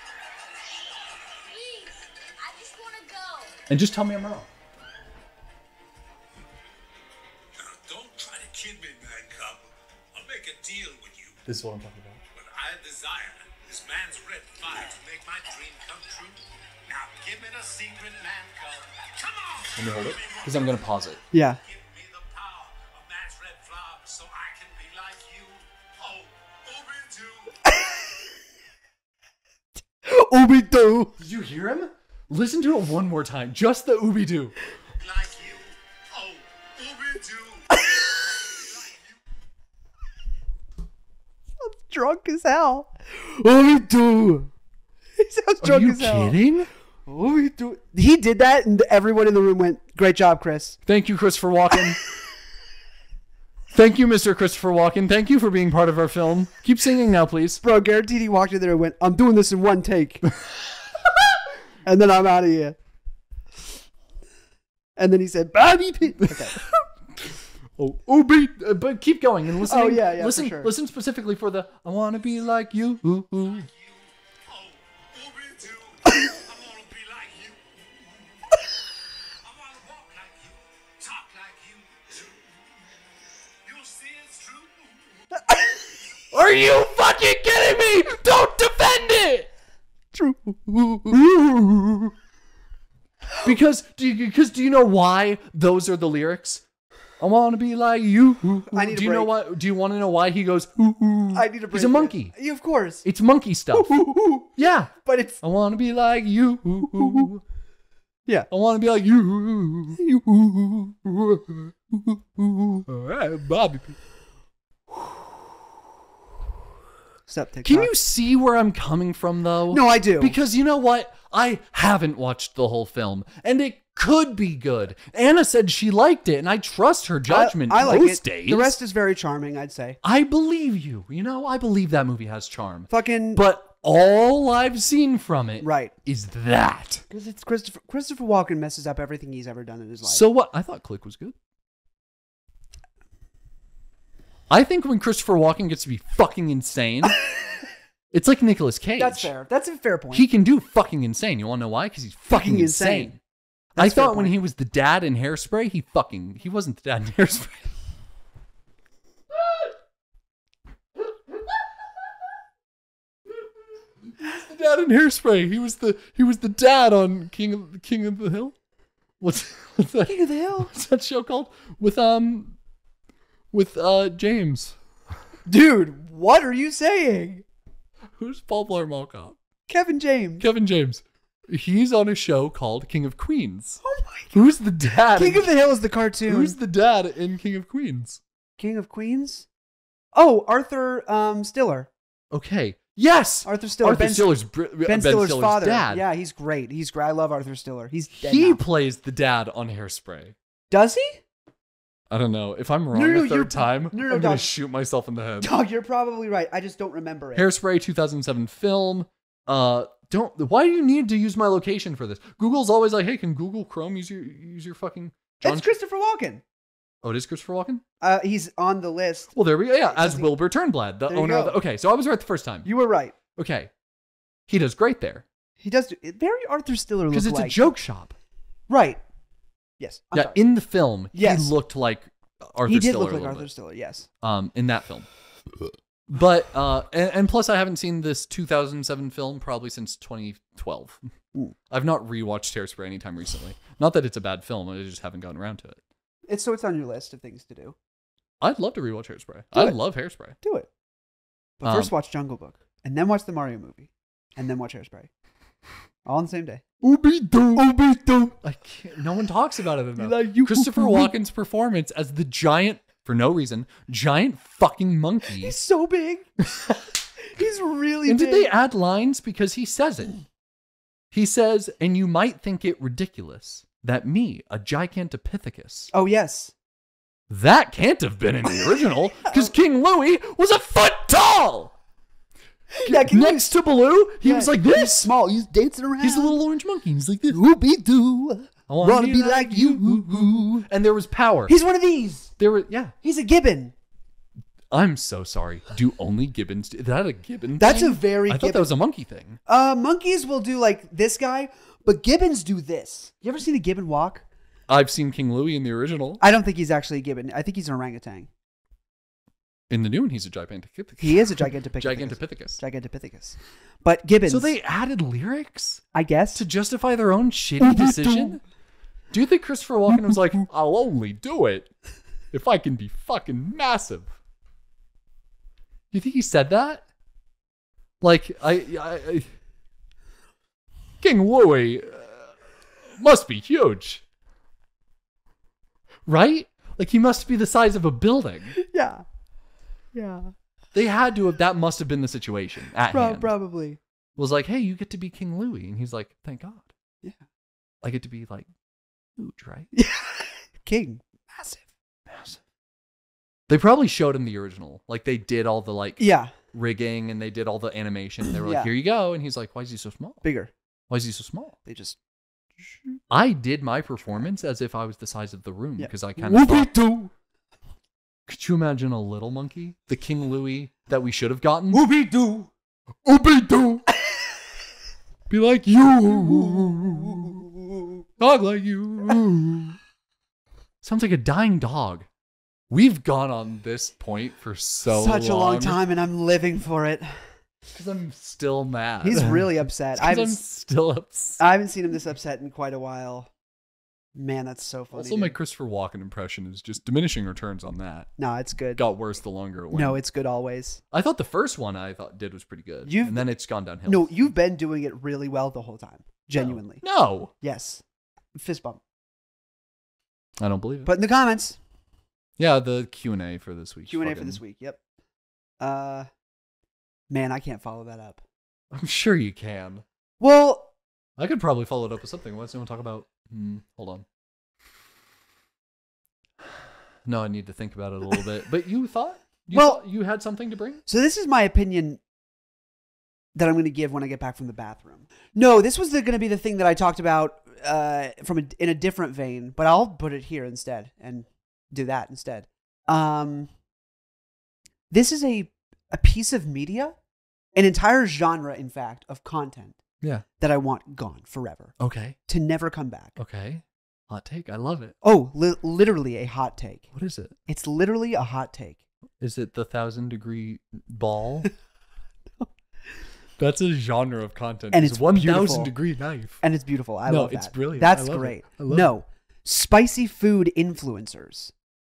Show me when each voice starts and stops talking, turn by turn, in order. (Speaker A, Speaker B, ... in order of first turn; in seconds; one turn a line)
Speaker A: 1.5-3.5
Speaker B: 3.7-4.5
Speaker C: 7.6-11.4
Speaker B: 11.5-12.2
Speaker C: 12.3-27.6
Speaker B: 19.8-21.2
Speaker D: 21.3-21.6
Speaker D: 30.0-31.2
Speaker B: 31.2-34.6
Speaker C: 35.0-39.0
Speaker D: 37.8-38.0
Speaker D: 41.6-44.5
Speaker D: 45.2-46.4
Speaker B: 45.6-46.7
Speaker D: 47.1-50.8
Speaker B: 50.9-52.0
Speaker B: 53.7-57.6
Speaker D: 57.6-60.3
Speaker D: 61.9-62.8
Speaker D: 65.0-66.6
Speaker B: 66.2-66.7
Speaker B: 67.2-73.7
Speaker D: 69.7-70.7
Speaker C: 73.4-78.6
Speaker C: 79.4-82.9
Speaker C: 83.6-85.3
Speaker B: 86.3-89.5
Speaker D: 90.1-91.2
Speaker B: 91.1-92.1
Speaker B: 93.4-96.6
Speaker B: 97.2-102.3
Speaker D: 98.7-99.3
Speaker D: 101.3-103.0
Speaker B: 103.0-104.0
Speaker D: 103.7-104.5
Speaker B: 104.5-107.4
Speaker D: 105.0-105.4
Speaker B: 108.5-114.0
Speaker D: 117.3-117.9
Speaker B: 117.7-128.8
Speaker D: 119.7-120.4
Speaker D: 127.3-130.0
Speaker B: 130.0-137.1
Speaker D: 132.9-133.4
Speaker D: 135.6-135.9
Speaker D: 137.1-140.2
Speaker B: 140.0-141.4
Speaker B: 144.5-147.2
Speaker B: 148.1-149.3
Speaker D: 149.0-150.3
Speaker B: 150.1-153.2
Speaker D: 152.3-153.2
Speaker B: 153.8-157.7
Speaker D: 153.8-154.3
Speaker B: 159.3-159.7
Speaker B: 161.0-161.6
Speaker B: 164.1-168.6
Speaker B: 169.2-172.6
Speaker D: 170.0-170.7
Speaker B: 173.5-174.8
Speaker D: 175.5-177.4
Speaker B: 178.2-179.4
Speaker D: 179.7-180.5
Speaker B: 180.4-183.8
Speaker D: 183.8-184.4
Speaker B: 184.3-185.5
Speaker D: 185.2-186.6
Speaker B: 186.3-188.2
Speaker D: 188.6-189.5
Speaker D: 190.1-191.9
Speaker B: 192.3-196.1
Speaker D: 193.4-198.6
Speaker B: 198.2-200.3
Speaker D: 200.7-201.2
Speaker B: 202.1-205.5
Speaker D: 202.9-204.5
Speaker D: 205.4-207.5
Speaker B: 207.3-215.7
Speaker D: 215.4-216.4
Speaker B: 217.0-217.8
Speaker D: 218.0-220.3
Speaker B: 219.3-222.7
Speaker D: 221.1-221.6
Speaker D: 222.7-223.2
Speaker B: 223.3-223.7
Speaker B: 224.5-225.2
Speaker D: 225.6-227.7
Speaker B: 227.1-228.1
Speaker D: 228.7-229.0
Speaker D: 229.8-230.4
Speaker B: 230.1-233.5
Speaker D: 231.1-231.5
Speaker D: 232.7-234.1
Speaker B: 234.2-235.1
Speaker B: 236.1-241.0
Speaker B: 241.7-245.8
Speaker D: 246.3-247.8
Speaker B: 248.4-250.4
Speaker D: 250.4-250.7
Speaker D: 251.6-255.1
Speaker B: 251.6-251.9
Speaker D: 256.1-256.6
Speaker B: 256.8-257.8
Speaker D: 257.6-258.4
Speaker B: 258.3-265.6
Speaker D: 260.0-261.1
Speaker D: 265.4-266.3
Speaker B: 266.5-266.8
Speaker D: 267.2-268.5
Speaker B: 268.1-270.1
Speaker B: 271.1-275.9
Speaker D: 275.9-276.5
Speaker B: 277.3-281.8
Speaker D: 282.7-283.5
Speaker B: 282.9-285.1
Speaker D: 284.2-286.4
Speaker B: 286.0-287.4
Speaker D: 287.3-290.6
Speaker B: 288.7-291.6
Speaker D: 291.5-292.3
Speaker B: 292.4-292.9
Speaker D: 293.0-293.7
Speaker B: 294.7-299.4
Speaker D: 297.6-298.7
Speaker D: 299.5-304.2
Speaker B: 304.7-306.2
Speaker D: 306.2-308.3
Speaker B: 309.7-312.6
Speaker D: 311.0-314.5
Speaker B: 314.3-315.8
Speaker D: 315.9-316.5
Speaker B: 316.4-318.4
Speaker D: 317.6-318.4
Speaker B: 319.1-321.7
Speaker B: 322.3-324.1
Speaker B: 325.9-326.9
Speaker B: 328.0-329.3
Speaker B: 331.0-332.4
Speaker B: 332.9-334.0
Speaker B: 336.1-338.5
Speaker D: 338.6-339.1
Speaker D: 339.9-340.3
Speaker B: 340.7-343.3
Speaker D: 342.9-343.8
Speaker B: 344.2-346.7
Speaker B: 347.8-348.5
Speaker B: 349.2-349.7
Speaker D: 349.7-351.7
Speaker B: 352.1-352.4
Speaker B: 353.5-360.2
Speaker D: 356.0-356.3
Speaker D: 358.3-358.7
Speaker D: 360.2-360.5
Speaker B: 360.9-361.6
Speaker D: 361.7-362.0
Speaker B: 363.1-366.7
Speaker D: 365.8-367.1
Speaker B: 368.3-371.8
Speaker D: 371.7-372.5
Speaker B: 373.0-373.9
Speaker B: 375.3-377.4
Speaker D: 376.1-378.0
Speaker B: 378.2-379.8
Speaker B: 380.8-382.1
Speaker B: 382.7-385.8
Speaker D: 384.9-387.3
Speaker B: 387.7-391.4
Speaker D: 389.0-390.4
Speaker D: 391.4-393.3
Speaker D: 394.1-395.4
Speaker B: 394.9-398.1
Speaker D: 398.2-398.8
Speaker B: 398.8-400.0
Speaker D: 399.7-400.8
Speaker B: 400.9-404.3
Speaker D: 402.9-403.3
Speaker D: 403.9-406.8
Speaker B: 406.4-407.3
Speaker D: 407.4-407.8
Speaker D: 408.4-408.8
Speaker B: 410.4-410.9
Speaker D: 410.9-411.6
Speaker B: 412.4-414.4
Speaker D: 413.9-414.8
Speaker D: 415.6-416.1
Speaker D: 417.1-418.2
Speaker B: 418.7-419.8
Speaker D: 420.2-420.7
Speaker B: 421.2-424.1
Speaker B: 426.4-430.8
Speaker D: 429.5-429.8
Speaker D: 430.9-432.0
Speaker D: 433.4-443.5
Speaker D: 444.9-447.0
Speaker D: 447.6-449.8
Speaker D: 450.4-451.8
Speaker B: 451.8-452.2
Speaker D: 452.3-453.2
Speaker B: 453.2-454.9
Speaker D: 455.0-456.9
Speaker B: 456.9-457.4
Speaker D: 457.5-458.8
Speaker B: 459.2-461.5
Speaker B: 463.4-466.4
Speaker D: 464.7-465.7
Speaker D: 466.4-471.5
Speaker B: 467.1-468.9